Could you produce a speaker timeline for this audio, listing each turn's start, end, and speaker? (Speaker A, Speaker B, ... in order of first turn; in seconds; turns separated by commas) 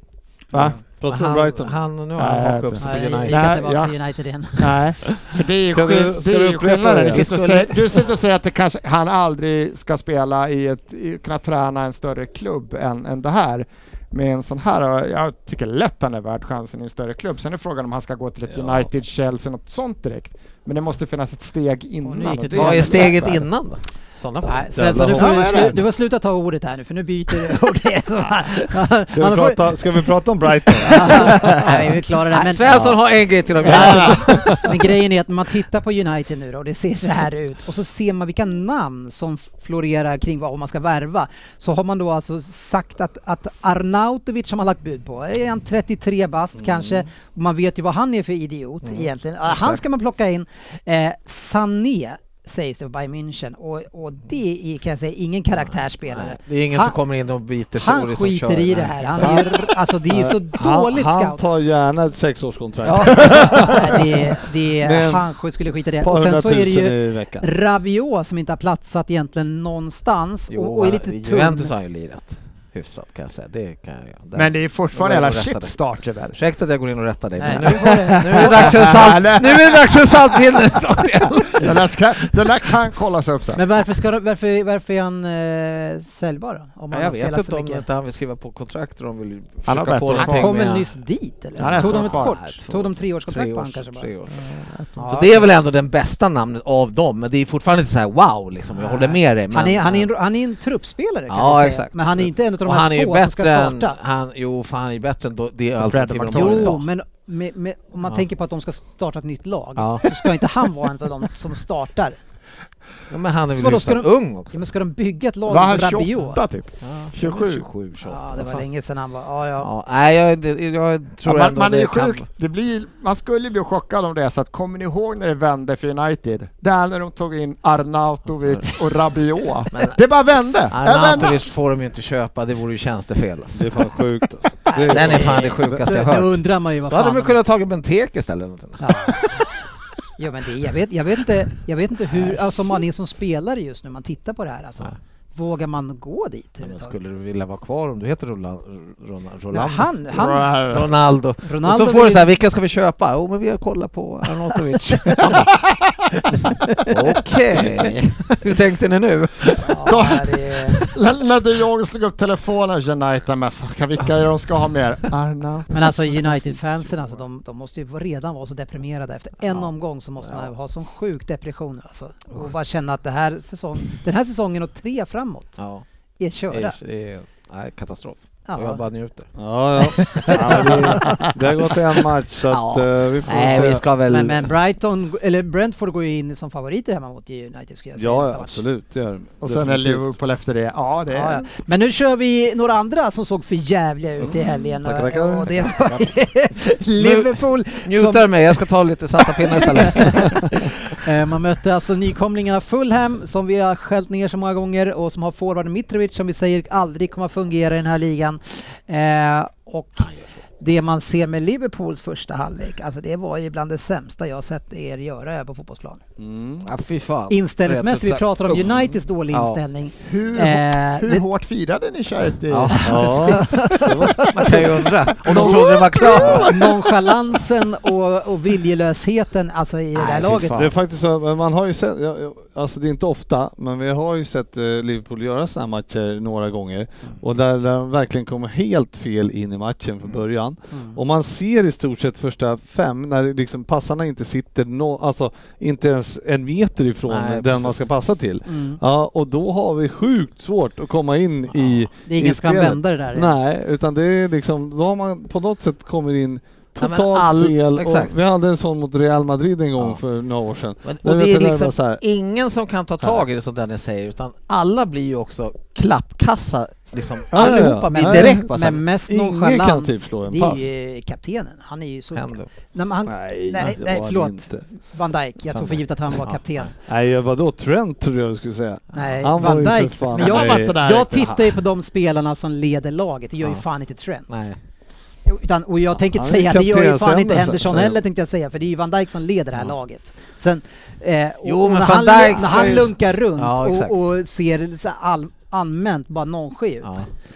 Speaker A: 0.5-0.8, Speaker B: 0.8-1.8, Speaker C: 1.1-3.6, Speaker A: 2.2-4.0, Speaker D: 2.8-4.8, Speaker A: 4.6-23.4, Speaker B: 5.7-7.3, Speaker C: 7.1-8.1, Speaker D: 22.1-23.3, Speaker C: 22.2-25.6, Speaker D: 24.4-30.1, Speaker B: 24.7-25.8, Speaker A: 25.2-25.5, Speaker B: 29.1-31.8, Speaker D: 30.8-32.8, Speaker C: 31.0-34.7, Speaker B: 32.7-33.0, Speaker D: 33.6-57.0, Speaker B: 33.7-34.7, Speaker A: 33.7-34.2, Speaker C: 48.9-49.8, Speaker C: 56.1-59.4, Speaker D: 57.8-61.4, Speaker B: 59.2-59.5, Speaker B: 60.1-65.2, Speaker C: 62.8-63.8, Speaker D: 63.0-71.7, Speaker B: 66.0-67.5, Speaker C: 70.5-75.8, Speaker A: 74.3-76.4, Speaker C: 76.3-82.5, Speaker D: 77.4-78.9, Speaker A: 77.5-80.8, Speaker A: 81.5-83.6, Speaker D: 83.5-87.9, Speaker C: 86.9-90.9, Speaker A: 89.7-90.6, Speaker D: 90.1-94.1, Speaker C: 91.6-100.1, Speaker A: 91.6-92.3, Speaker A: 94.3-95.4, Speaker D: 95.0-95.5, Speaker D: 98.8-104.0, Speaker C: 101.3-106.8, Speaker A: 105.8-106.8, Speaker D: 106.3-112.2, Speaker C: 109.8-110.1, Speaker C: 113.1-114.6, Speaker D: 113.5-116.4, Speaker A: 115.5-117.7, Speaker C: 116.8-118.7, Speaker D: 118.0-119.7, Speaker C: 119.6-122.3, Speaker A: 121.2-131.4, Speaker C: 128.5-128.7, Speaker C: 129.7-130.0, Speaker C: 130.7-133.7, Speaker B: 133.5-135.9, Speaker D: 134.7-137.4, Speaker C: 134.8-136.4, Speaker C: 136.9-139.4, Speaker D: 138.8-139.2, Speaker D: 140.2-147.0, Speaker C: 146.6-149.9, Speaker D: 149.5-150.5, Speaker A: 150.1-150.9, Speaker C: 150.7-155.5, Speaker D: 151.4-152.3, Speaker A: 155.2-156.0, Speaker C: 156.2-159.9, Speaker D: 156.7-156.9, Speaker D: 159.6-160.8, Speaker A: 159.8-166.3, Speaker D: 165.7-175.6, Speaker C: 170.2-170.5, Speaker C: 175.6-175.8, Speaker D: 176.2-176.8, Speaker C: 176.5-181.2, Speaker D: 178.5-178.8, Speaker B: 179.4-183.8, Speaker C: 182.5-184.5, Speaker D: 184.1-188.6, Speaker B: 188.0-190.1, Speaker A: 189.4-191.5, Speaker D: 191.1-198.6, Speaker B: 194.2-195.7, Speaker C: 197.0-200.5, Speaker D: 199.4-216.0, Speaker B: 216.2-216.7, Speaker C: 216.6-219.6, Speaker D: 217.3-221.2, Speaker A: 220.0-223.4, Speaker C: 222.5-226.6, Speaker D: 222.7-230.7, Speaker B: 222.8-224.2, Speaker A: 225.2-226.9, Speaker C: 229.9-230.7, Speaker B: 230.5-262.0, Speaker D: 240.7-241.0, Speaker C: 247.1-247.9, Speaker D: 248.5-248.8, Speaker D: 252.0-253.3, Speaker C: 256.8-258.1, Speaker C: 260.8-268.8, Speaker B: 267.3-270.7, Speaker D: 267.3-276.7, Speaker C: 272.1-272.5, Speaker B: 273.1-274.6, Speaker C: 275.5-276.7, Speaker B: 276.9-280.8, Speaker D: 278.9-284.5, Speaker A: 280.2-281.6, Speaker C: 284.3-284.6, Speaker D: 285.3-297.1, Speaker B: 286.1-288.0, Speaker C: 291.4-294.0, Speaker B: 292.5-292.8, Speaker C: 296.8-297.1